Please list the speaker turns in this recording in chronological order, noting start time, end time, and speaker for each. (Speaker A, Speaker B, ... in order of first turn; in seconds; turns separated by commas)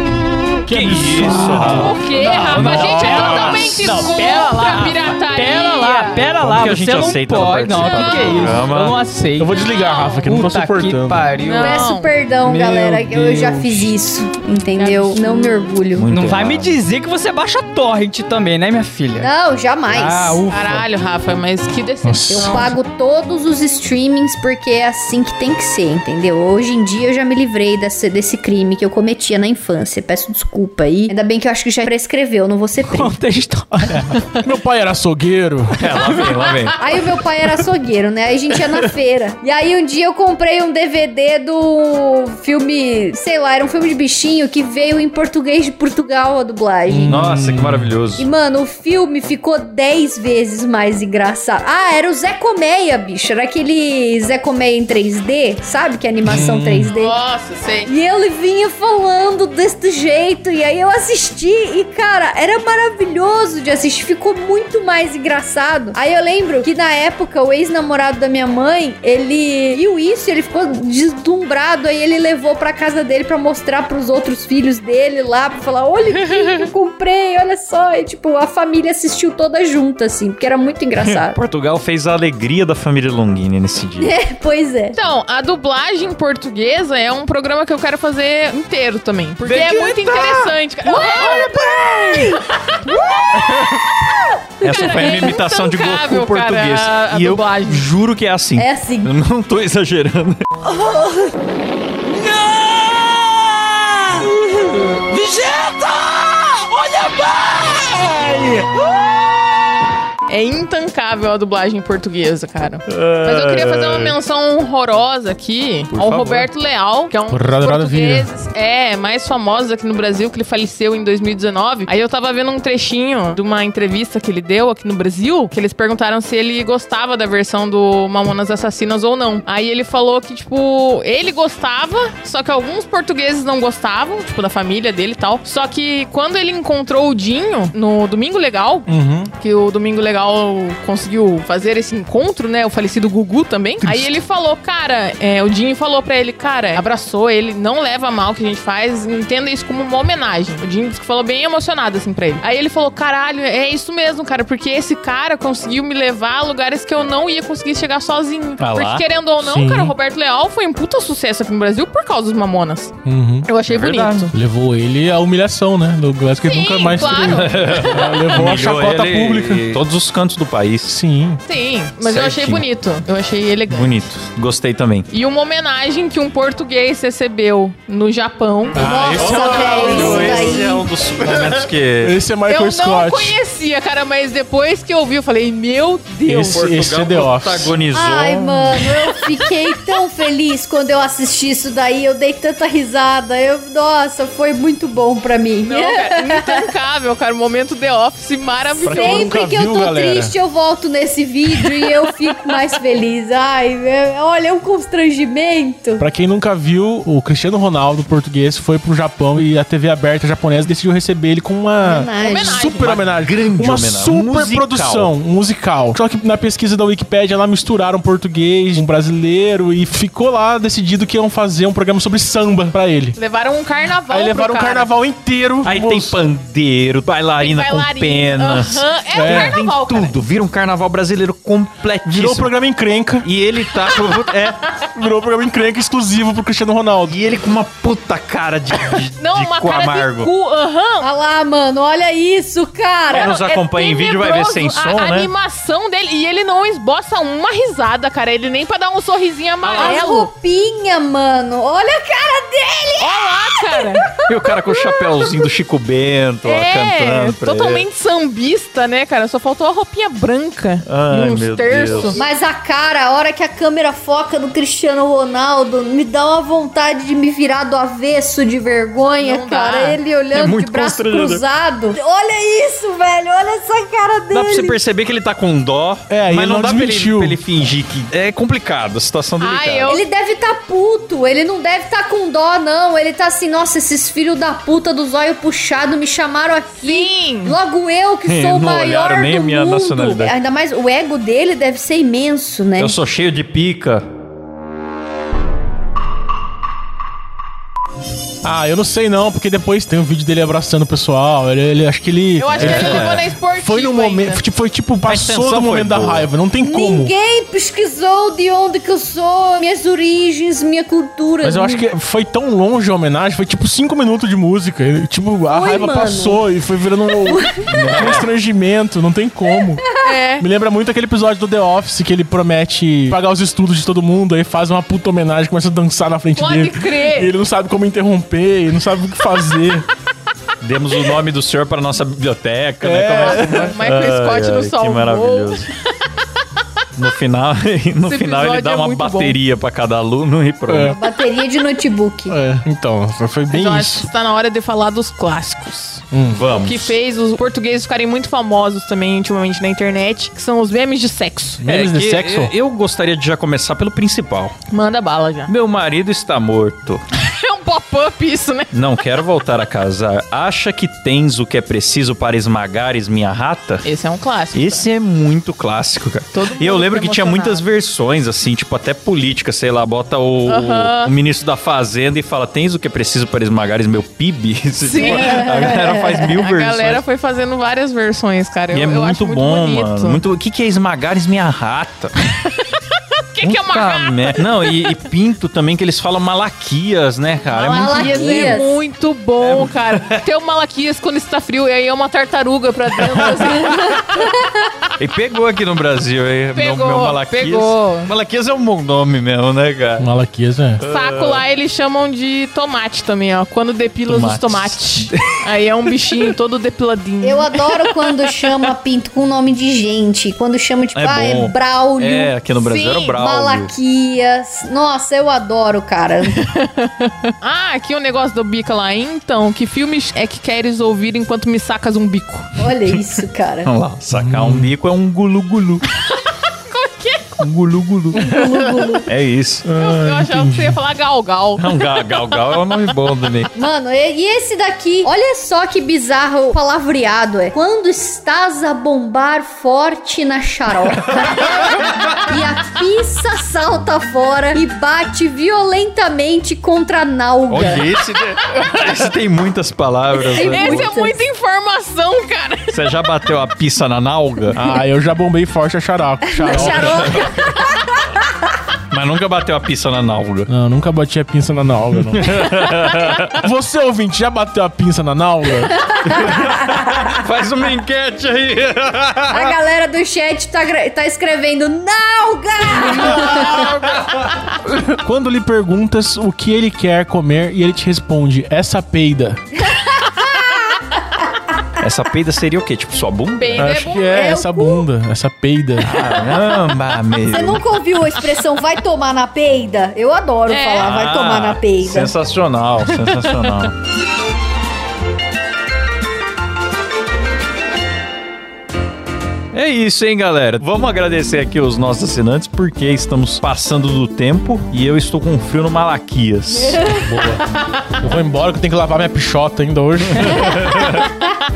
Speaker A: 0.6-3.8, Speaker B: 0.7-3.9, Speaker C: 1.6-6.2, Speaker D: 2.5-9.6, Speaker B: 6.4-9.0, Speaker C: 7.7-8.7, Speaker A: 9.4-11.3, Speaker C: 9.7-10.2, Speaker D: 10.2-11.9, Speaker C: 11.4-12.1, Speaker E: 11.6-16.1, Speaker D: 12.4-13.9, Speaker C: 14.8-15.7, Speaker B: 15.9-16.8, Speaker D: 16.1-19.3, Speaker E: 19.1-20.4, Speaker D: 19.9-20.9, Speaker C: 20.5-22.7, Speaker A: 22.0-22.7, Speaker E: 22.3-33.2, Speaker D: 32.9-34.4, Speaker A: 34.4-35.8, Speaker B: 35.8-36.8, Speaker C: 36.0-36.7, Speaker E: 36.8-47.2, Speaker A: 46.9-47.9, Speaker B: 47.1-48.3, Speaker E: 48.2-57.1, Speaker A: 56.2-56.9, Speaker C: 56.9-57.9, Speaker E: 57.9-81.4, Speaker C: 76.1-76.7, Speaker B: 81.0-84.1, Speaker E: 84.0-85.0, Speaker C: 84.9-91.5, Speaker B: 89.4-90.5, Speaker E: 90.9-93.3, Speaker C: 92.3-93.8, Speaker B: 94.6-100.4, Speaker E: 94.6-95.1, Speaker C: 94.6-97.8, Speaker E: 98.6-99.1, Speaker E: 100.6-101.2, Speaker B: 105.8-106.2, Speaker B: 107.8-108.7, Speaker C: 110.3-138.9, Speaker B: 112.8-114.1, Speaker B: 115.9-116.5, Speaker A: 117.3-118.3, Speaker A: 138.9-139.3, Speaker C: 139.4-162.9, Speaker A: 143.8-144.1, Speaker B: 158.6-159.0, Speaker A: 159.4-159.9, Speaker A: 163.0-163.5, Speaker C: 163.5-164.3, Speaker B: 163.7-164.3, Speaker A: 164.3-169.8, Speaker C: 166.4-168.2, Speaker B: 167.0-170.9, Speaker A: 170.9-171.4, Speaker C: 171.4-173.9, Speaker B: 172.0-172.7, Speaker B: 173.7-175.1, Speaker C: 175.1-180.3, Speaker A: 178.7-180.6, Speaker E: 178.8-180.8, Speaker B: 179.1-182.2, Speaker A: 181.2-183.4, Speaker C: 182.5-186.7, Speaker A: 186.2-187.7, Speaker B: 186.5-189.1, Speaker E: 187.9-196.7, Speaker C: 195.6-199.3, Speaker A: 198.8-200.3, Speaker E: 198.8-206.0, Speaker A: 206.0-223.2, Speaker E: 211.8-212.7, Speaker C: 212.2-212.9, Speaker B: 212.8-215.1, Speaker C: 223.2-224.9, Speaker A: 224.1-226.2, Speaker B: 225.6-232.5, Speaker C: 227.4-230.1, Speaker A: 229.1-229.6, Speaker A: 232.0-233.3, Speaker B: 233.2-234.6, Speaker A: 234.9-237.2, Speaker B: 237.1-240.3, Speaker C: 239.2-241.1, Speaker E: 241.0-243.4, Speaker B: 243.1-245.3, Speaker C: 243.1-250.3, Speaker B: 249.6-250.0, Speaker E: 249.8-255.3, Speaker C: 253.0-254.1, Speaker B: 254.3-257.8, Speaker C: 256.4-262.2, Speaker B: 260.8-262.2, Speaker E: 262.1-274.8, Speaker C: 269.2-270.0, Speaker B: 270.3-271.4, Speaker B: 274.3-279.9, Speaker A: 276.1-277.4, Speaker C: 279.4-280.0, Speaker E: 279.9-292.9, Speaker C: 286.8-287.6, Speaker B: 288.2-290.3, Speaker B: 292.8-294.0, Speaker A: 298.4-307.1, Speaker C: 302.4-304.4, Speaker B: 302.6-303.1, Speaker B: 305.1-306.3, Speaker E: 306.6-311.8, Speaker A: 311.4-319.9, Speaker E: 315.5-316.4, Speaker E: 317.2-318.1, Speaker B: 317.6-318.3, Speaker C: 320.0-320.4, Speaker A: 320.4-329.9, Speaker C: 326.4-327.3, Speaker B: 330.6-335.7, Speaker A: 332.8-333.8, Speaker C: 333.1-336.1, Speaker B: 336.9-340.9, Speaker C: 338.0-339.4, Speaker A: 340.7-341.0, Speaker E: 340.8-342.4, Speaker A: 342.3-344.1, Speaker C: 343.5-346.0, Speaker A: 346.1-346.4, Speaker B: 346.3-346.9, Speaker C: 346.6-351.6, Speaker A: 351.6-352.5, Speaker B: 351.6-354.5, Speaker C: 354.7-355.5, Speaker B: 355.5-357.0, Speaker C: 357.1-358.7, Speaker B: 358.7-363.9, Speaker C: 363.8-364.9, Speaker B: 364.5-377.0, Speaker C: 366.3-367.6, Speaker C: 370.5-371.1, Speaker C: 374.8-380.2, Speaker E: 374.9-376.2, Speaker B: 378.7-382.1, Speaker C: 382.5-384.4, Speaker B: 383.4-388.6, Speaker C: 387.5-394.2, Speaker E: 387.6-388.8, Speaker B: 389.4-390.2, Speaker E: 393.5-394.7, Speaker B: 395.0-400.1, Speaker C: 396.5-398.1, Speaker A: 400.0-400.8, Speaker B: 400.8-401.4, Speaker C: 400.9-408.3, Speaker B: 404.1-405.3, Speaker E: 407.2-412.3, Speaker B: 410.9-413.7, Speaker C: 412.5-413.2, Speaker E: 413.2-416.4, Speaker C: 416.3-422.6, Speaker E: 422.6-423.7, Speaker B: 423.6-425.8, Speaker A: 424.1-424.7, Speaker C: 426.0-427.4, Speaker B: 427.4-428.3, Speaker E: 428.1-429.1, Speaker B: 429.1-429.6, Speaker A: 429.6-430.8, Speaker C: 429.8-432.0, Speaker B: 431.6-433.5, Speaker E: 433.5-447.9, Speaker B: 441.2-442.0, Speaker B: 447.5-450.9, Speaker C: 448.5-449.0, Speaker E: 450.3-451.2, Speaker C: 450.4-452.9, Speaker B: 452.7-454.6, Speaker A: 454.5-457.2, Speaker E: 456.3-458.2, Speaker B: 456.4-457.5, Speaker B: 458.9-460.5, Speaker A: 460.5-462.5, Speaker B: 462.1-463.4, Speaker A: 463.4-465.8, Speaker E: 465.7-467.1, Speaker B: 466.0-469.6, Speaker E: 469.3-473.8, Speaker B: 472.8-474.3, Speaker C: 473.0-473.8, Speaker A: 474.8-479.4, Speaker E: 479.6-481.4, Speaker B: 481.8-483.8, Speaker C: 483.4-484.5, Speaker A: 483.6-485.9, Speaker E: 484.1-484.8, Speaker B: 485.8-487.6, Speaker E: 487.3-492.1, Speaker C: 490.5-490.9, Speaker B: 490.8-493.7, Speaker B: 499.5-506.8, Speaker E: 506.5-507.1, Speaker A: 507.0-510.6, Speaker B: 510.0-511.1